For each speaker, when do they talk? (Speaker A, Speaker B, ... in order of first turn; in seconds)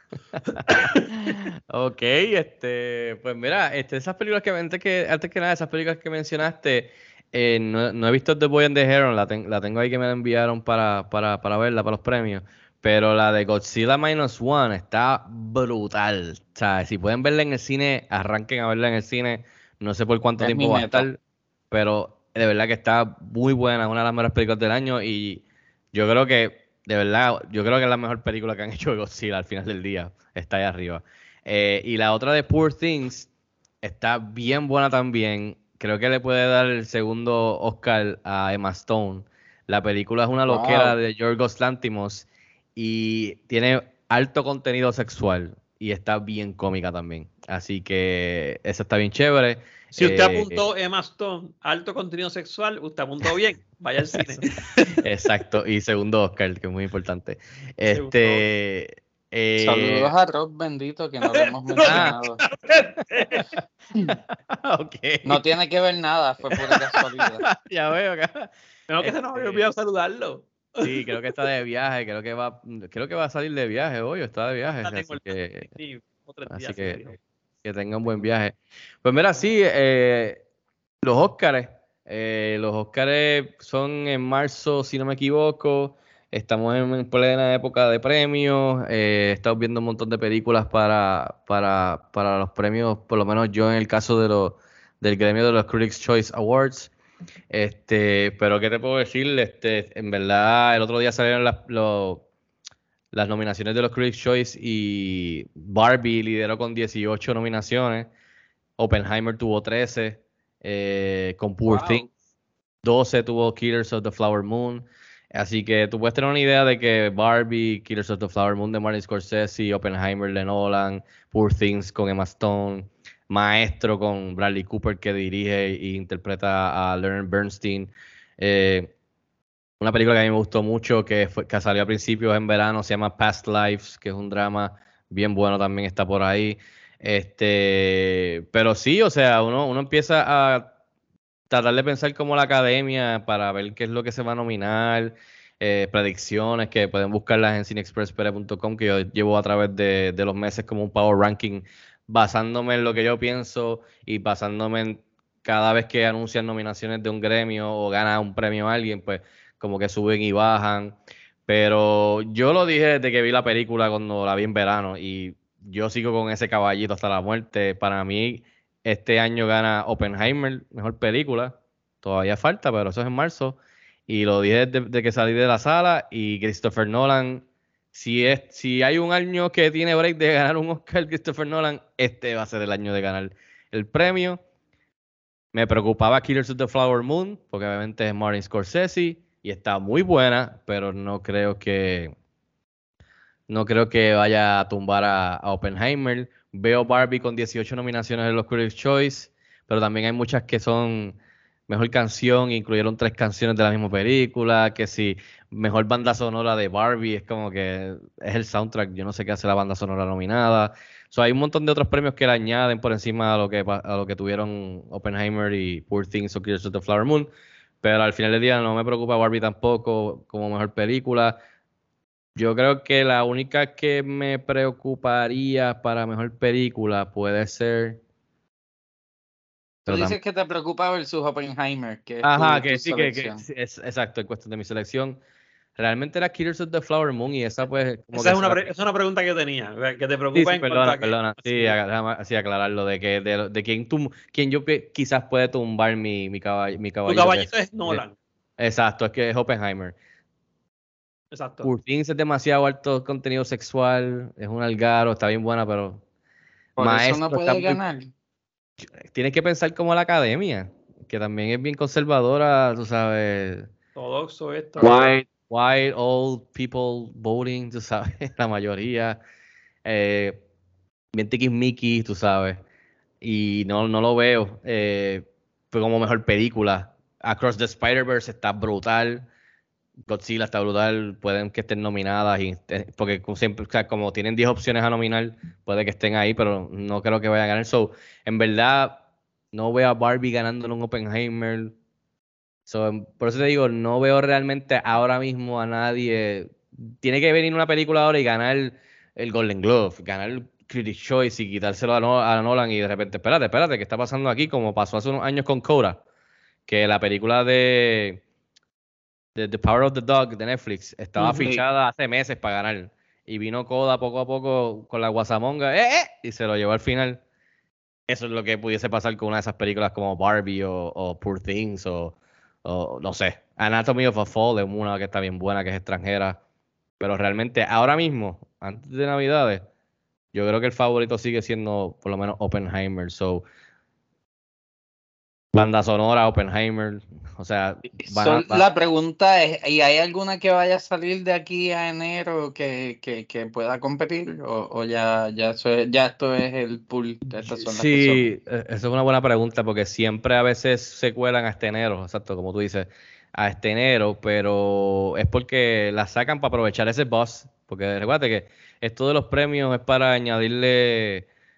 Speaker A: 0.4-21.2, 21.7-25.4, 25.9-33.3, 33.8-50.7, 54.1-60.1, 61.8-62.2, 63.1-65.4, 66.5-68.5, 69.0-69.7, 70.8-75.7, 76.5-77.1, 77.6-80.4, 81.0-96.9, 97.5-102.2, 103.1-108.1, 108.8-112.1, 112.8-128.9, 129.8-140.7, 141.5-161.0, 161.5-184.4, 185.5-192.1, 193.5-201.2, 201.7-217.3, 217.8-221.4, 222.4-228.0, 229.9-230.2, 232.2-235.2, 235.8-238.7, 240.3-248.0, 248.6-249.9, 251.6-256.0, 256.8-257.8, 259.0-263.7, 264.8-269.2, 269.9-270.4, 271.1-272.6, 273.2-279.3, 280.1-289.0, 289.5-291.7, 292.7-306.0, 306.7-308.2, 309.4-317.2, 318.1-326.4, 327.0-329.6, 330.3-333.4, 335.5-338.6, 347.6-361.3
Speaker B: 20.4-21.1, 40.5-41.0, 59.6-62.4, 65.2-67.5, 111.6-112.1, 229.9-233.4, 256.8-258.1, 311.2-311.6, 338.1-348.3
Speaker C: 50.0-54.9, 57.9-58.5, 61.4-63.5, 68.9-71.2, 74.7-77.2, 238.1-241.8, 247.1-248.2, 251.3-251.7, 264.0-265.2